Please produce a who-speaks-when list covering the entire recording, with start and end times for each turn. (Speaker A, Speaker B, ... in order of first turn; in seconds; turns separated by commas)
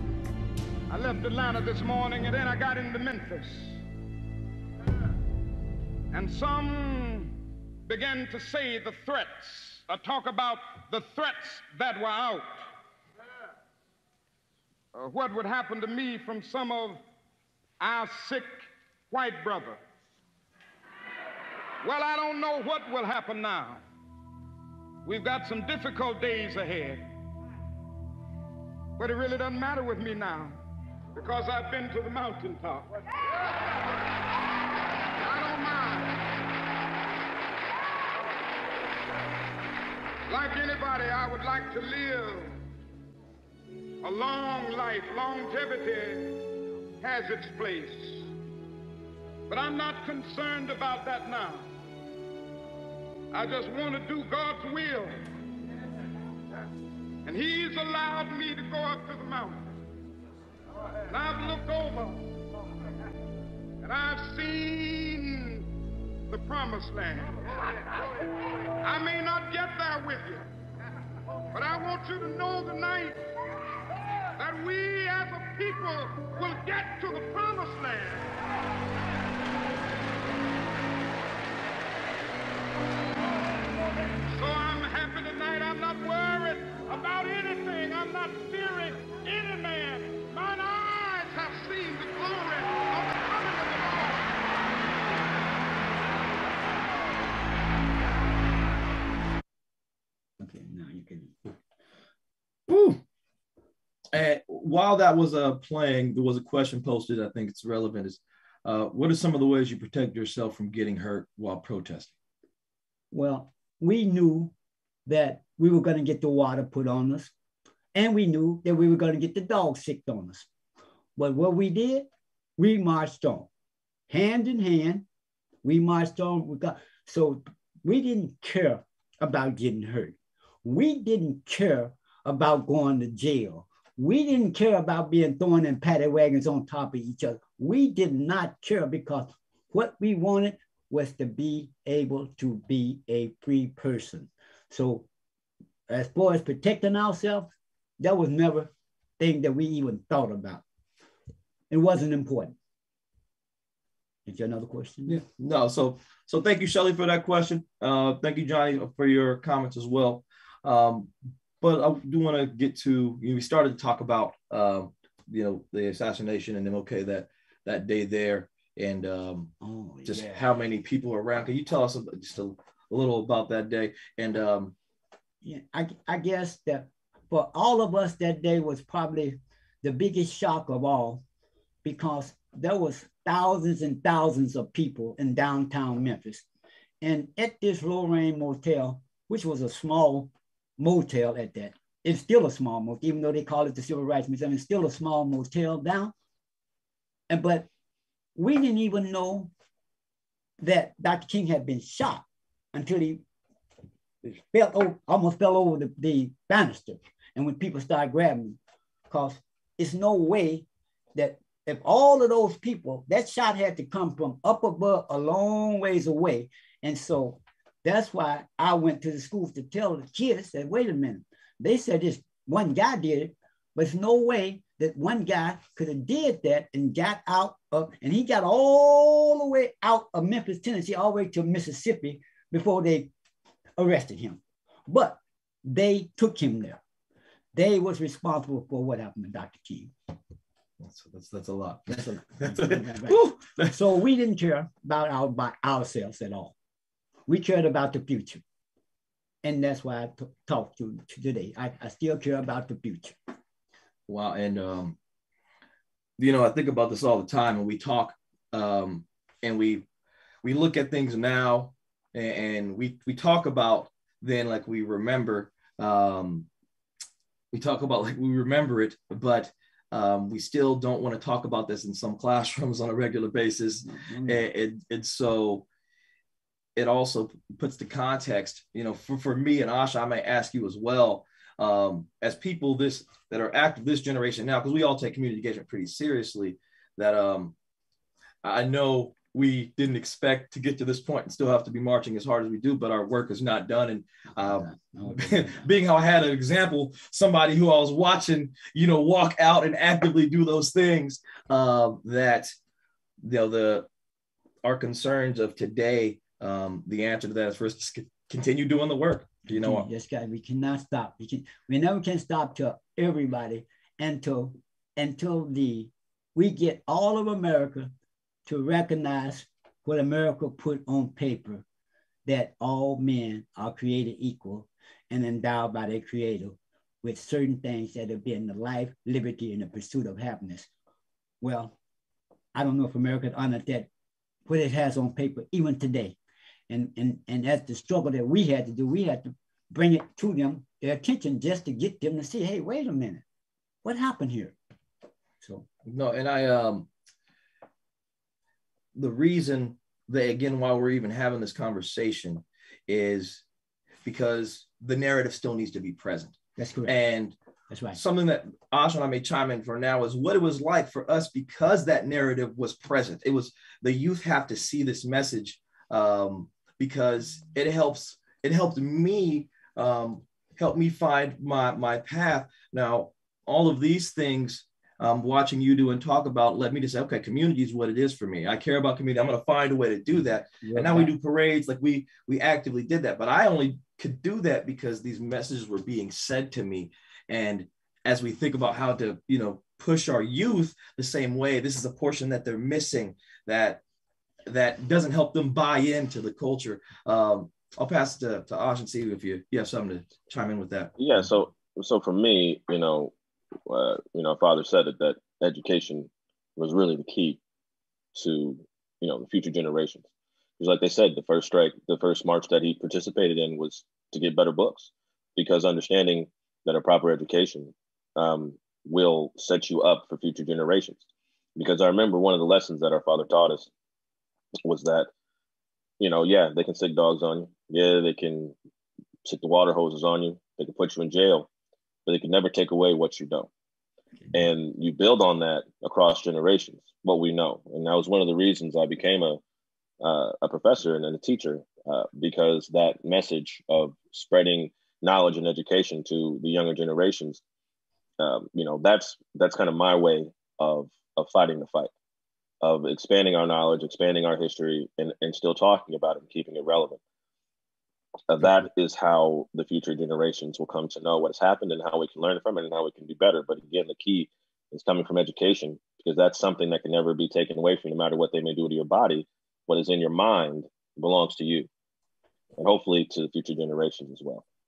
Speaker A: 0.9-3.8, Speaker A: 6.1-7.3, Speaker A: 7.9-12.7, Speaker A: 14.9-17.0, Speaker A: 17.8-19.8, Speaker A: 21.8-23.8, Speaker A: 25.1-27.1, Speaker A: 29.0-30.6, Speaker A: 31.1-33.0, Speaker A: 35.2-36.2, Speaker A: 40.3-42.6, Speaker A: 44.0-46.4, Speaker A: 47.0-48.3, Speaker A: 49.5-51.7, Speaker A: 53.3-55.2, Speaker A: 57.2-59.7, Speaker A: 61.1-62.2, Speaker A: 63.8-65.7, Speaker A: 66.3-67.4, Speaker A: 68.8-70.5, Speaker A: 71.5-73.2, Speaker A: 74.4-78.4, Speaker A: 84.3-94.3, Speaker B: 100.4-101.5, Speaker C: 102.7-103.0, Speaker C: 104.1-112.2, Speaker B: 113.1-114.5, Speaker B: 115.1-117.3, Speaker B: 117.9-120.5, Speaker B: 121.2-123.5, Speaker B: 124.1-125.0, Speaker B: 125.6-145.1, Speaker B: 145.9-150.6, Speaker B: 151.7-152.6, Speaker B: 154.3-155.2, Speaker C: 155.1-169.5, Speaker B: 169.6-170.4, Speaker C: 170.1-174.7, Speaker B: 175.4-181.2, Speaker B: 181.8-186.4, Speaker B: 187.0-196.1, Speaker B: 197.3-197.7, Speaker B: 198.4-199.5, Speaker B: 200.6-203.2, Speaker B: 204.2-208.6, Speaker B: 209.1-233.1, Speaker B: 233.8-236.8, Speaker B: 237.5-239.9, Speaker C: 240.8-243.8, Speaker B: 241.9-246.5, Speaker B: 247.3-248.4, Speaker B: 249.4-253.2, Speaker C: 254.1-255.0, Speaker C: 256.2-259.9, Speaker C: 260.4-266.5, Speaker C: 267.5-275.7, Speaker B: 273.8-274.5, Speaker C: 276.8-287.5, Speaker C: 288.4-302.5, Speaker B: 294.4-295.7, Speaker C: 303.2-303.9, Speaker C: 304.6-309.9, Speaker B: 309.5-317.9, Speaker B: 318.5-321.6, Speaker B: 322.3-330.7, Speaker B: 331.4-331.8, Speaker B: 332.5-333.9, Speaker B: 334.5-336.2, Speaker B: 336.7-343.2, Speaker B: 343.8-344.6, Speaker C: 345.9-346.9, Speaker C: 348.9-353.4, Speaker C: 354.0-357.4, Speaker B: 356.6-356.9, Speaker B: 357.7-358.0, Speaker C: 357.9-393.8, Speaker B: 380.6-381.1, Speaker C: 394.5-400.9, Speaker D: 401.0-403.1, Speaker D: 403.7-407.4, Speaker D: 408.1-410.1, Speaker D: 410.6-421.0, Speaker D: 421.6-423.7, Speaker D: 424.6-425.1, Speaker D: 426.0-428.5, Speaker D: 429.2-431.5, Speaker D: 432.1-433.5, Speaker D: 434.3-439.4, Speaker D: 440.0-447.4, Speaker D: 448.2-451.9, Speaker D: 452.6-457.0, Speaker D: 458.3-471.7, Speaker D: 472.6-474.4